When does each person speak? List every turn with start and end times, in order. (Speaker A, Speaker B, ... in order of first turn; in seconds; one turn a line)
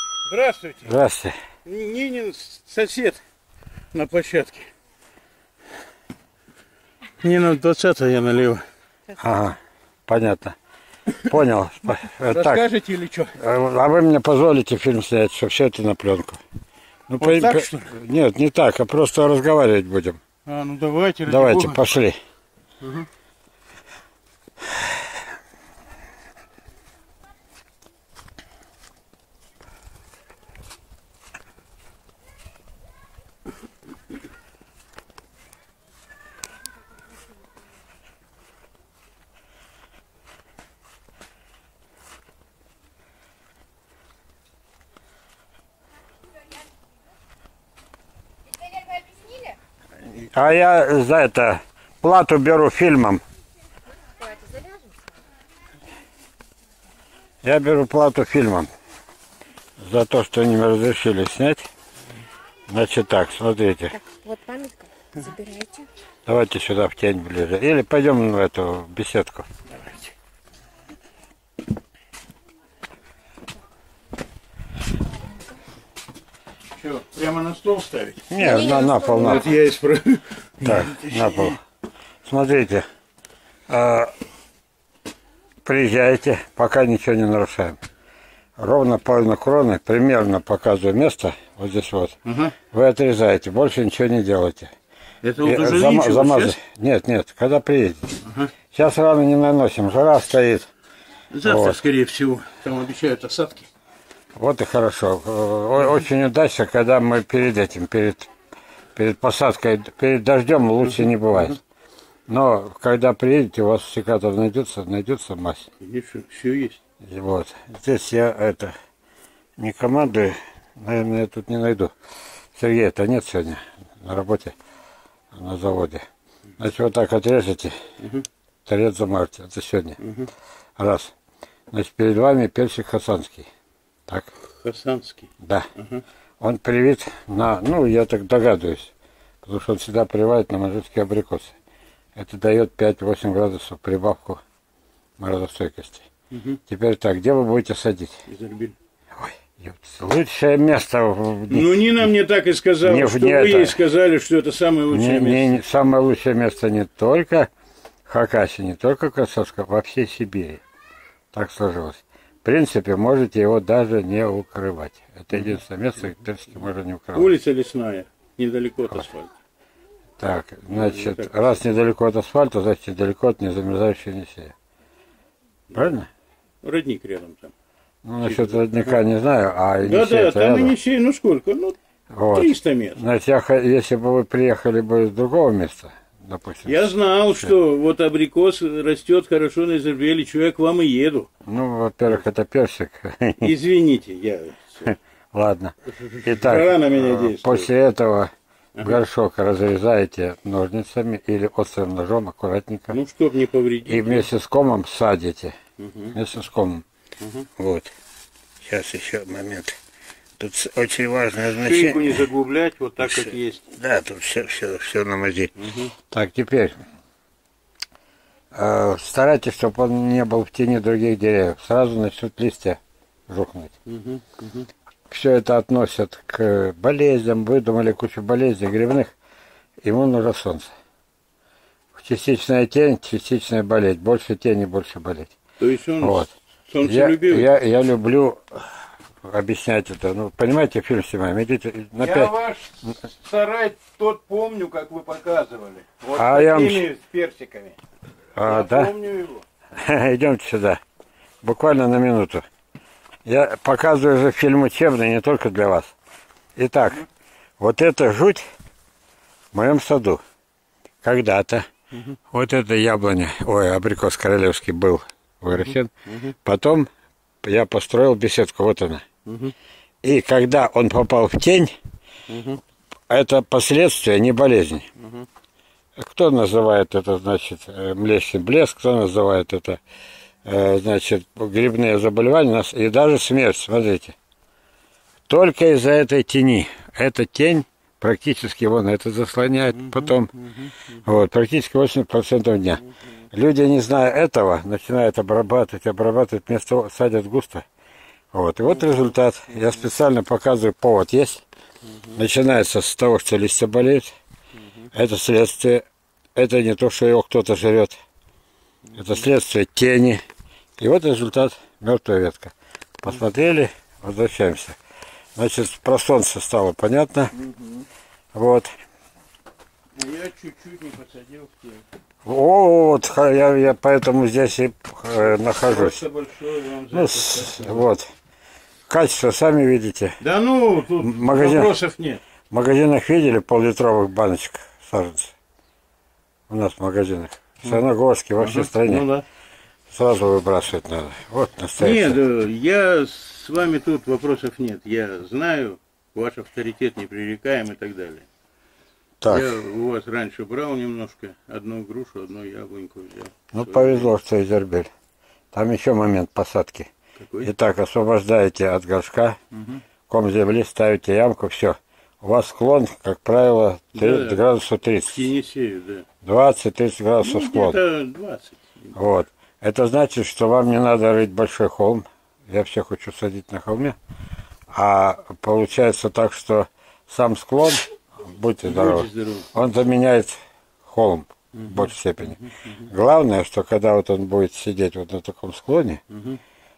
Speaker A: 0.3-0.9
Speaker B: 0.8-1.3
Speaker A: 1.6-3.2
Speaker A: 3.9-4.7
Speaker A: 7.2-8.6
Speaker B: 9.2-10.6
Speaker B: 11.2-12.7
Speaker A: 12.2-13.4
Speaker B: 13.4-16.4
Speaker B: 17.1-20.2
Speaker A: 17.2-17.9
Speaker A: 20.4-21.9
Speaker B: 21.2-22.2
Speaker A: 22.8-23.1
Speaker C: 48.7-49.5
Speaker B: 50.0-53.2
Speaker C: 54.2-54.9
Speaker B: 57.4-58.7
Speaker B: 59.8-61.7
Speaker B: 62.7-64.0
Speaker C: 64.0-65.9
Speaker B: 66.2-69.5
Speaker A: 76.7-78.4
Speaker B: 78.3-79.5
Speaker C: 78.4-79.4
Speaker A: 79.2-81.6
Speaker B: 80.6-81.6
Speaker B: 82.2-82.8
Speaker B: 83.7-84.1
Speaker B: 85.6-87.8
Speaker B: 88.6-92.2
Speaker A: 92.2-92.5
Speaker B: 92.7-94.7
Speaker A: 95.2-96.6
Speaker B: 95.4-98.2
Speaker A: 98.2-98.5
Speaker B: 98.7-100.7
Speaker A: 101.3-103.7
Speaker B: 101.4-101.8
Speaker B: 104.3-108.3
Speaker B: 109.0-111.6
Speaker A: 111.0-111.6
Speaker B: 112.3-115.7
Speaker A: 115.8-116.8
Speaker B: 117.0-118.7
Speaker B: 119.6-121.9
Speaker B: 122.5-124.5
Speaker B: 125.3-126.0
Speaker B: 126.6-127.8
Speaker A: 128.0-128.2
Speaker B: 128.7-130.0
Speaker A: 130.0-130.3
Speaker B: 130.8-131.1
Speaker B: 131.7-133.5
Speaker A: 134.4-136.0
Speaker B: 135.4-135.7
Speaker B: 136.4-138.9
Speaker B: 139.4-141.5
Speaker B: 142.2-144.4
Speaker B: 145.2-146.1
Speaker A: 146.3-146.6
Speaker B: 146.7-148.2
Speaker A: 148.3-148.7
Speaker B: 149.2-152.1
Speaker A: 151.5-155.6
Speaker B: 152.8-153.8
Speaker B: 154.9-157.5
Speaker B: 158.1-160.6
Speaker B: 161.3-167.3
Speaker A: 165.3-165.6
Speaker A: 167.1-169.3
Speaker B: 170.2-174.5
Speaker A: 170.7-171.6
Speaker B: 175.7-176.1
Speaker A: 176.6-177.5
Speaker B: 178.0-180.8
Speaker A: 178.2-179.0
Speaker A: 179.8-181.8
Speaker B: 182.1-187.5
Speaker A: 182.3-183.0
Speaker A: 186.6-191.3
Speaker B: 191.4-193.5
Speaker A: 193.4-194.9
Speaker B: 194.9-203.0
Speaker A: 195.9-197.7
Speaker A: 202.9-204.3
Speaker B: 203.9-205.5
Speaker A: 205.8-206.2
Speaker B: 206.1-206.8
Speaker A: 207.2-207.4
Speaker B: 207.6-207.9
Speaker B: 208.6-209.8
Speaker B: 210.4-212.2
Speaker A: 211.4-213.7
Speaker B: 213.0-215.5
Speaker A: 215.6-215.9
Speaker B: 216.1-216.8
Speaker B: 218.5-223.7
Speaker A: 223.9-224.7
Speaker B: 225.1-229.1
Speaker B: 229.8-230.7
Speaker B: 231.9-235.3
Speaker A: 235.6-237.5
Speaker B: 236.0-238.7
Speaker B: 239.2-242.3
Speaker A: 242.0-247.8
Speaker B: 246.1-246.9
Speaker B: 248.3-248.9
Speaker A: 248.4-249.4
Speaker B: 249.7-250.8
Speaker B: 251.4-252.4
Speaker B: 253.2-255.9
Speaker B: 256.6-257.1
Speaker B: 257.6-258.4
Speaker B: 259.5-260.2
Speaker B: 261.0-261.7
Speaker B: 262.3-265.9
Speaker A: 265.5-266.3
Speaker B: 266.4-266.9
Speaker B: 267.4-269.0
Speaker A: 269.2-269.5
Speaker B: 270.0-271.7
Speaker A: 272.3-272.6
Speaker B: 273.1-274.9
Speaker A: 275.0-275.3
Speaker B: 276.0-279.8
Speaker B: 280.4-284.1
Speaker B: 285.3-290.3
Speaker A: 289.7-290.9
Speaker B: 291.0-297.6
Speaker B: 298.3-301.4
Speaker A: 299.5-299.8
Speaker B: 302.1-304.1
Speaker B: 304.9-308.0
Speaker A: 308.9-309.2
Speaker B: 308.9-310.2
Speaker B: 310.8-314.8
Speaker B: 315.4-317.3
Speaker A: 317.4-317.8
Speaker B: 318.3-318.7
Speaker A: 319.9-321.8
Speaker B: 322.2-326.0
Speaker A: 325.2-327.9
Speaker B: 326.9-328.1
Speaker B: 328.9-330.2
Speaker A: 330.2-332.2
Speaker B: 331.0-331.7
Speaker B: 332.5-335.3
Speaker B: 336.5-339.1
Speaker A: 338.4-339.2
Speaker B: 339.9-342.2
Speaker A: 341.8-348.3
Speaker B: 349.2-349.6
Speaker A: 349.3-354.1
Speaker B: 353.5-354.9
Speaker B: 355.5-356.9
Speaker A: 357.2-357.5
Speaker B: 357.4-359.4
Speaker B: 360.1-365.3
Speaker A: 363.9-364.4
Speaker A: 365.0-366.1
Speaker B: 366.2-367.8
Speaker A: 367.2-368.9
Speaker B: 368.9-374.0
Speaker B: 374.7-386.0
Speaker A: 378.6-379.5
Speaker A: 381.5-382.8
Speaker A: 386.1-386.4